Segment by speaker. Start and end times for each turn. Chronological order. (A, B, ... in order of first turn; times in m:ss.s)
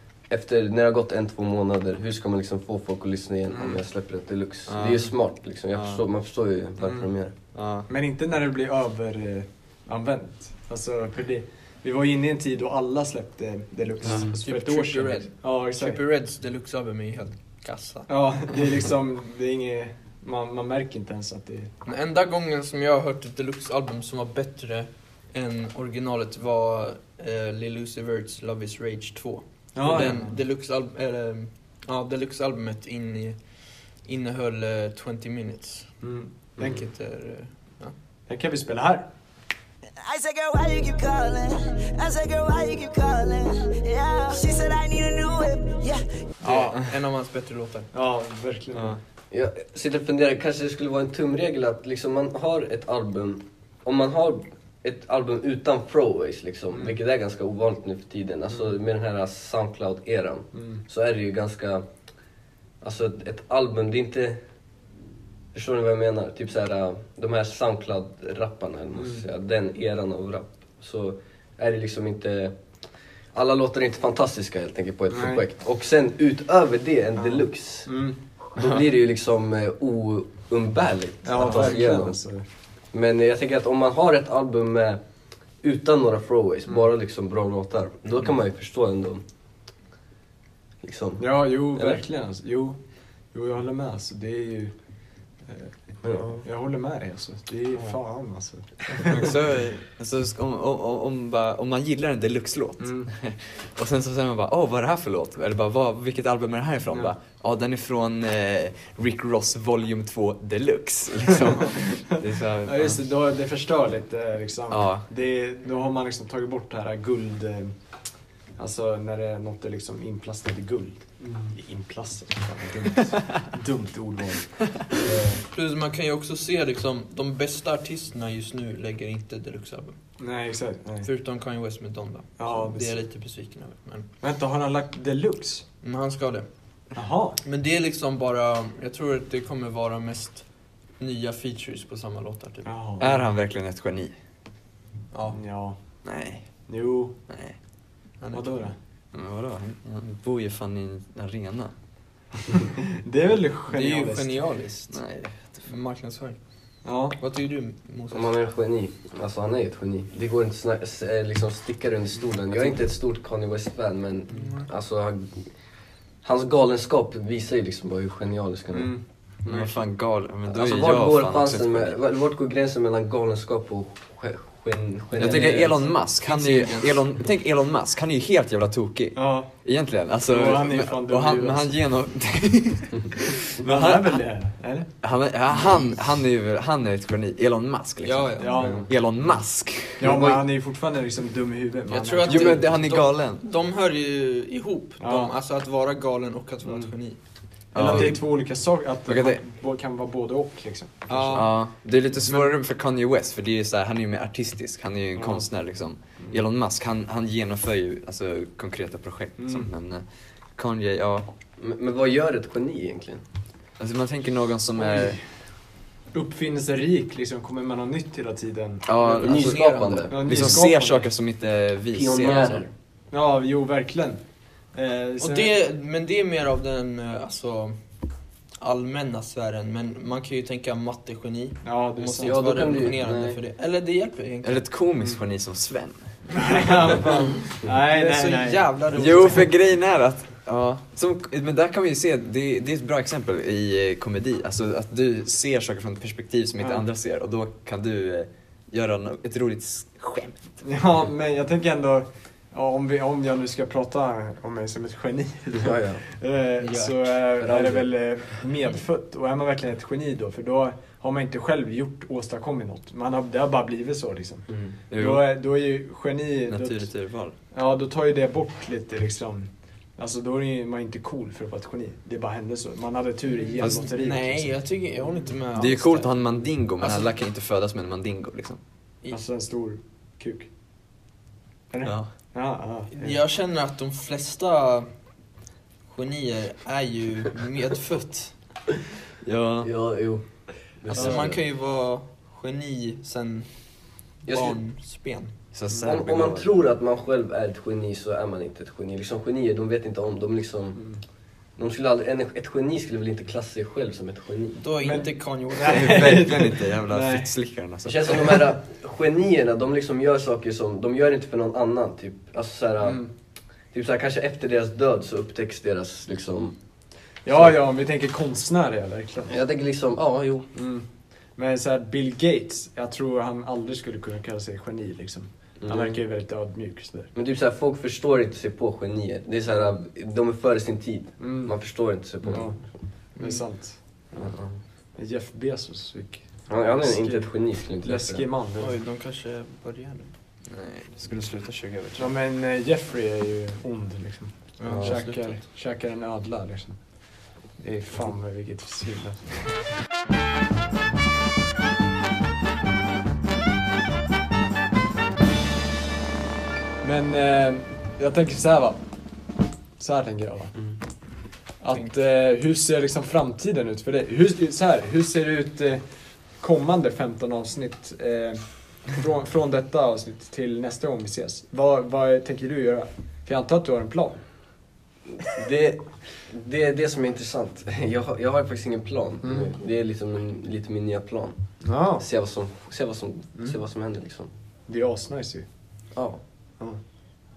0:00.3-0:07.3 A
0:04.7-0:05.1 B
0:05.7-0:06.0 B
0:06.8-0:07.1 C
0:07.6-0:07.9 B
0:07.9-0:16.0 C
0:14.3-0:18.1 D
0:18.1-0:21.7 C
0:21.8-0:35.9 D
0:29.8-0:30.4 C
0:36.0-0:36.3 C
0:36.6-0:37.9 D
0:38.3-0:39.1 C
0:40.1-0:46.0 E
0:46.4-0:46.8 C
0:46.4-0:47.9 D
0:47.9-0:49.0 C
0:49.3-1:01.8 A
0:56.7-0:57.0 C
1:00.5-1:00.8 C
1:02.8-1:04.4 A
1:05.5-1:12.6 A
1:09.0-1:09.2 C
1:13.3-1:22.2 A
1:15.1-1:15.4 C
1:17.2-1:18.2 C
1:21.2-1:22.4 C
1:22.9-1:25.0 A
1:25.6-1:29.2 A
1:30.8-1:32.0 A
1:31.2-1:32.8 C
1:33.3-1:34.7 C
1:36.0-1:36.4 A
1:36.4-1:39.4 C
1:39.1-1:53.0 B
1:42.8-1:43.1 C
1:52.6-1:57.7 C
1:54.7-1:55.0 B
1:58.6-2:05.4 C
2:05.1-2:05.3 A
2:05.5-2:10.0 D
2:10.2-2:11.1 C
2:11.0-2:14.1 D
2:12.4-2:13.0 C
2:14.2-2:15.6 C
2:15.8-2:16.5 D
2:17.0-2:17.4 C
2:17.4-2:20.4 D
2:21.0-2:22.7 D
2:22.7-2:23.2 C
2:23.0-2:24.1 B
2:25.1-2:25.4 D
2:25.3-2:25.8 C
2:26.0-2:26.5 B
2:26.7-2:27.2 C
2:27.3-2:27.6 B
2:28.2-2:28.7 D
2:28.3-2:28.8 C
2:29.1-2:31.7 B
2:32.8-2:34.4 C
2:33.7-2:35.0 D
2:34.9-2:35.6 B
2:35.7-2:36.4 D
2:36.8-2:37.2 C
2:37.2-2:38.3 D
2:38.1-2:45.5 A
2:44.3-2:44.7 D
2:46.2-2:49.0 A
2:48.7-2:49.0 C
2:49.4-2:52.0 B
2:50.5-2:55.9 A
2:55.2-3:04.2 B
2:56.1-2:56.9 D
2:59.2-2:59.5 C
3:00.3-3:01.7 C
3:03.6-3:04.9 C
3:05.0-3:10.1 B
3:08.0-3:08.8 D
3:08.4-3:08.9 C
3:10.0-3:12.6 C
3:10.0-3:10.4 A
3:11.9-3:17.2 D
3:12.3-3:13.4 B
3:15.0-3:15.3 C
3:17.7-3:18.3 B
3:17.8-3:21.4 C
3:19.1-3:19.4 B
3:21.1-3:21.5 D
3:21.3-3:30.0 B
3:25.2-3:25.5 C
3:29.4-3:29.7 C
3:30.6-3:31.3 B
3:31.6-3:33.2 A
3:33.8-3:35.2 B
3:34.8-3:35.2 C
3:36.1-3:38.8 C
3:38.9-3:42.6 B
3:39.0-3:40.2 D
3:39.2-3:40.6 A
3:40.1-3:41.1 C
3:41.9-3:42.7 A
3:43.1-3:44.2 C
3:44.7-3:45.5 C
3:45.2-3:47.8 D
3:48.6-3:54.7 D
3:51.6-3:52.8 C
3:52.2-3:53.4 A
3:54.4-3:56.1 B
3:56.4-3:59.5 C
3:57.7-3:59.5 D
3:58.9-4:10.5 B
4:06.6-4:06.9 C
4:10.6-4:26.9 C
4:15.6-4:16.0 A
4:16.6-4:17.0 D
4:17.4-4:17.9 A
4:24.5-4:24.8 A
4:24.9-4:25.3 B
4:26.5-4:27.4 B
4:27.5-4:34.5 C
4:33.4-4:36.1 D
4:33.6-4:33.9 B
4:35.6-4:38.6 B
4:36.8-4:37.1 D
4:39.1-4:40.5 C
4:41.7-4:43.2 C
4:41.8-4:42.1 B
4:42.9-4:44.9 D
4:45.9-4:48.4 D
4:49.2-4:49.7 B
4:49.6-4:50.2 A
4:50.8-4:51.4 A
4:50.9-4:53.5 D
4:51.0-4:51.2 C
4:54.3-4:54.6 A
4:54.3-4:55.3 D
4:55.5-4:56.6 B
4:55.8-5:00.8 A
5:01.6-5:04.6 A
5:04.6-5:06.2 D
5:04.8-5:07.3 C
5:05.6-5:08.5 B
5:07.8-5:13.1 A
5:12.8-5:13.1 C
5:13.7-5:16.6 A
5:17.2-5:19.4 C
5:19.3-5:20.5 A
5:20.5-5:27.1 C
5:25.6-5:26.0 A
5:27.2-5:32.6 A
5:31.2-5:32.6 C
5:33.2-5:33.4 D
5:33.2-5:33.8 C
5:34.2-5:34.6 A
5:35.0-5:37.3 C
5:36.5-5:38.2 A
5:37.8-5:38.8 C
5:38.6-5:40.9 D
5:41.0-5:42.1 B
5:42.0-5:46.8 C
5:44.6-5:45.4 D
5:44.7-5:45.0 A
5:47.6-5:49.6 C
5:56.8-5:58.8 C
5:59.8-6:00.5 C
6:01.6-6:05.8 C
6:06.4-6:14.2 C
6:15.2-6:21.4 A
6:19.2-6:19.5 C
6:21.6-6:22.0 C
6:22.0-6:24.3 A
6:24.7-6:25.5 C
6:26.0-6:26.2 A